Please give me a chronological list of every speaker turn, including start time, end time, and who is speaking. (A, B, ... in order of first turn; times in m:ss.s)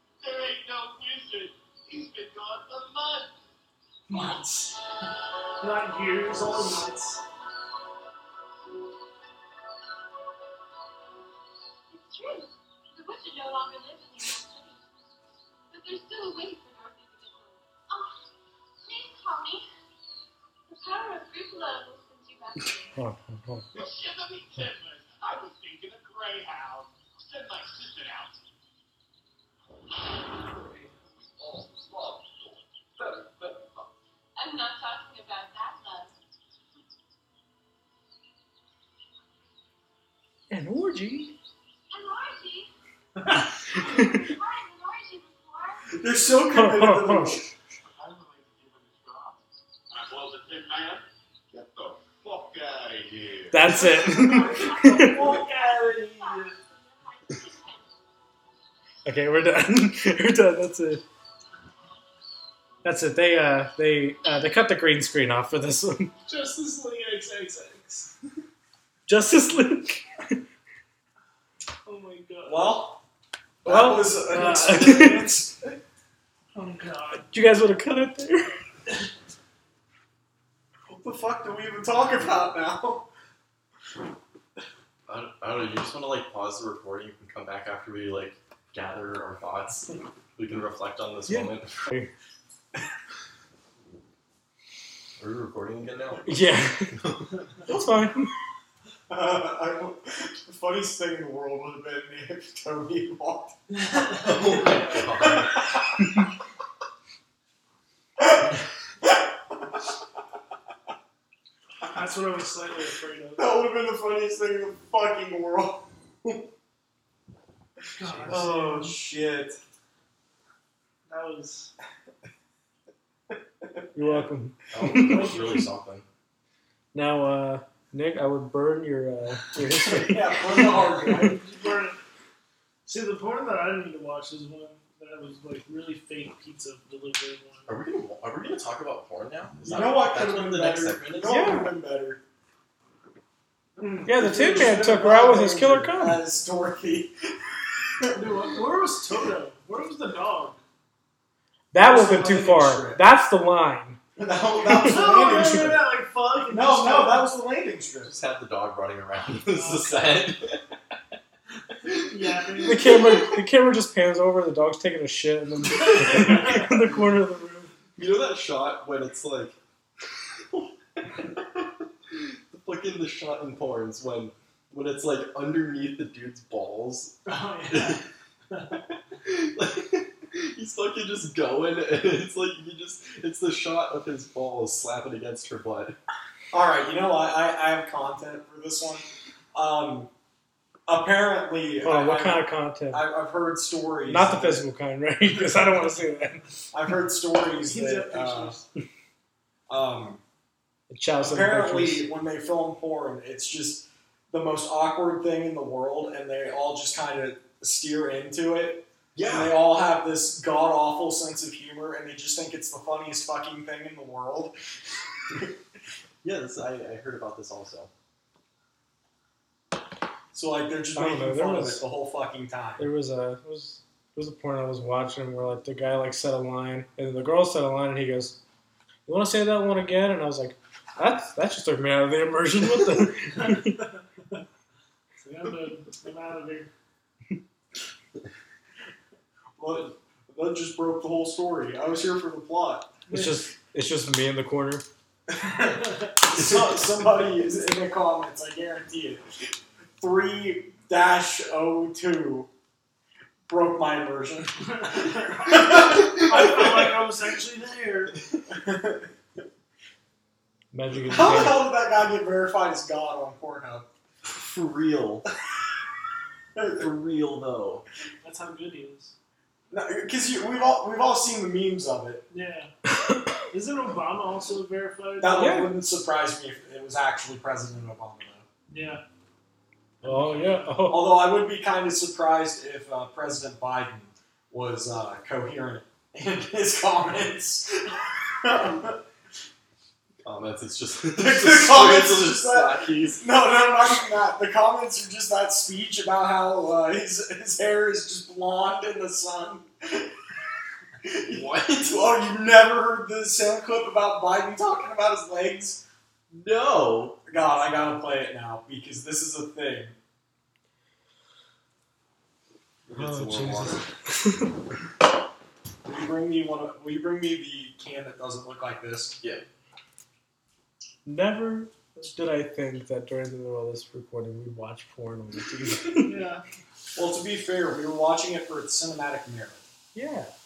0:00.2-0:03.3 A
0:04.1-0:04.8 B
0:05.6-0:07.2 B
0:11.9-0:14.9 C
0:15.7-0:18.2 C
0:18.8-0:19.7 C
0:20.7-0:23.0 C
0:23.0-0:23.7 D
0:23.7-0:28.4 A
0:30.4-0:33.8 A
0:34.4-0:36.1 C
0:40.5-0:41.3 D
0:41.9-0:42.7 C
0:43.7-0:46.3 C
0:43.8-0:44.3 D
0:46.0-0:47.5 E
0:46.5-0:47.4 D
0:48.0-0:49.4 A
0:49.9-0:54.3 A
0:53.5-0:55.3 D
0:54.4-0:56.5 B
0:54.5-0:57.9 C
0:59.0-1:01.0 D
1:02.8-1:06.1 D
1:06.3-1:08.1 B
1:09.1-1:10.4 D
1:11.9-1:12.8 B
1:12.4-1:13.0 E
1:13.6-1:15.8 E
1:13.6-1:15.4 D
1:16.6-1:17.3 B
1:17.2-1:18.6 D
1:20.9-1:23.1 E
1:25.1-1:31.8 F
1:31.3-1:32.1 D
1:35.2-1:36.4 F
1:36.3-1:37.0 D
1:36.9-1:37.4 F
1:37.7-1:38.3 D
1:39.1-1:43.6 E
1:43.7-1:45.0 B
1:44.1-1:45.6 F
1:48.2-1:48.5 E
1:51.8-1:53.5 B
1:53.4-1:56.5 E
1:57.9-1:59.0 B
1:58.2-1:59.6 E
1:58.3-1:58.8 D
2:01.1-2:01.7 B
2:04.0-2:05.6 D
2:04.0-2:04.3 B
2:04.7-2:06.1 F
2:05.0-2:05.6 B
2:06.9-2:11.3 D
2:09.7-2:11.4 E
2:11.2-2:12.0 B
2:12.9-2:17.7 B
2:17.7-2:21.4 F
2:19.6-2:22.2 E
2:21.3-2:21.7 D
2:23.8-2:24.1 B
2:24.0-2:28.2 E
2:24.0-2:26.2 D
2:28.1-2:30.6 B
2:31.7-2:34.0 D
2:31.8-2:33.0 E
2:34.2-2:35.9 E
2:34.6-2:35.4 D
2:34.7-2:37.3 B
2:36.5-2:38.1 E
2:38.0-2:40.6 F
2:39.5-2:40.0 B
2:42.0-2:43.2 B
2:42.6-2:47.7 D
2:45.8-2:46.7 B
2:48.0-2:49.6 F
2:50.5-2:57.2 F
2:57.2-2:58.8 B
2:57.7-2:58.0 F
2:59.2-3:06.0 F
3:06.5-3:10.1 E
3:10.9-3:14.6 E
3:11.8-3:13.1 D
3:14.1-3:16.6 D
3:15.2-3:15.7 E
3:16.7-3:18.6 E
3:17.6-3:18.6 B
3:19.7-3:20.2 E
3:20.9-3:22.0 D
3:21.2-3:34.5 E
3:29.2-3:29.6 F
3:36.2-3:37.9 F
3:40.3-3:42.9 E
3:41.0-3:41.8 D
3:42.8-3:48.4 D
3:49.1-3:53.8 D
3:55.2-3:56.7 B
3:59.6-4:02.9 E
4:03.1-4:03.4 B
4:03.1-4:04.8 D
4:05.3-4:09.5 E
4:10.0-4:12.5 E
4:13.5-4:17.0 E
4:14.7-4:18.2 B
4:18.5-4:19.1 E
4:20.7-4:21.6 D
4:21.0-4:23.9 E
4:24.2-4:25.3 F
4:26.6-4:26.9 E
4:26.8-4:27.8 F
4:28.2-4:29.1 B
4:29.7-4:32.2 E
4:32.3-4:32.7 B
4:32.9-4:33.3 D
4:33.5-4:35.6 B
4:35.2-4:38.4 E
4:35.3-4:35.7 D
4:38.7-4:39.0 B
4:40.0-4:40.7 B
4:40.0-4:41.1 D
4:40.9-4:49.0 E
4:50.2-4:53.3 F
4:51.2-5:00.1 E
5:01.0-5:05.8 E
5:01.3-5:02.0 F
5:06.3-5:07.2 F
5:07.3-5:10.0 E
5:12.9-5:13.8 F
5:13.0-5:14.5 D
5:15.8-5:19.2 E
5:21.0-5:26.1 D
5:26.0-5:26.4 B
5:27.0-5:29.6 E
5:29.9-5:30.3 D